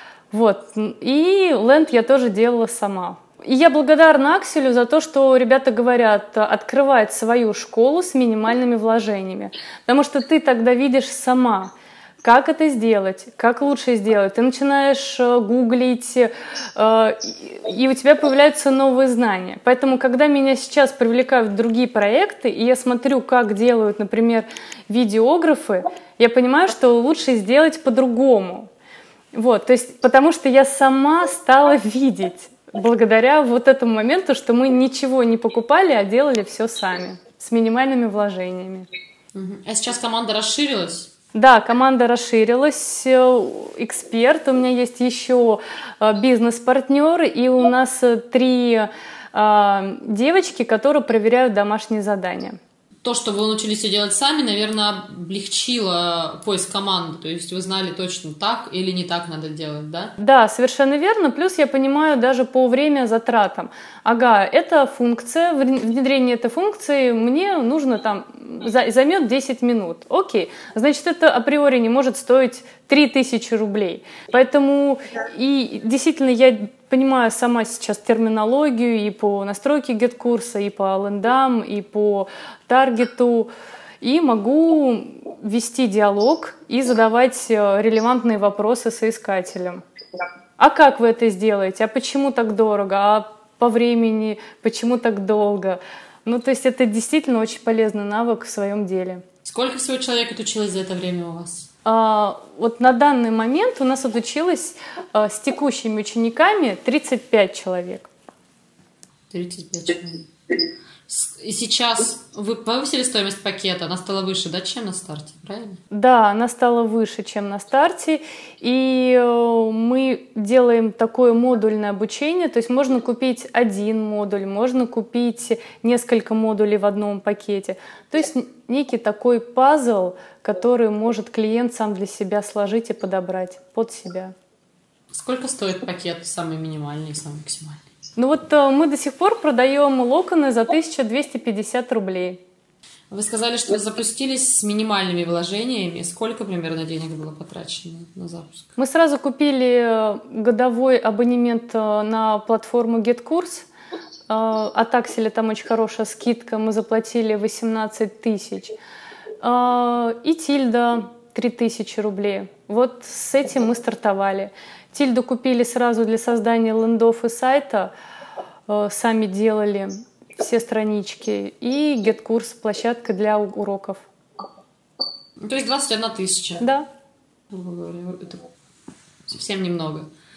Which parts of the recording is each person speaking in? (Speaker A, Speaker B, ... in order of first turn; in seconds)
Speaker A: 0.3-28.7, 29.3-38.9, 41.3-52.6, 60.2-89.8, 90.6-99.2, 101.8-108.1, 115.9-134.3, 138.2-142.4, 148.8-153.7, 154.3-158.8, 159.4-167.9, 168.7-174.0, 176.6-176.8
Speaker B: 39.3-41.1, 53.0-60.1, 99.4-101.7, 109.3-110.3, 111.1-115.8, 135.1-137.8, 143.1-148.7, 175.4-176.7, 177.5-178.4, 179.3-180.1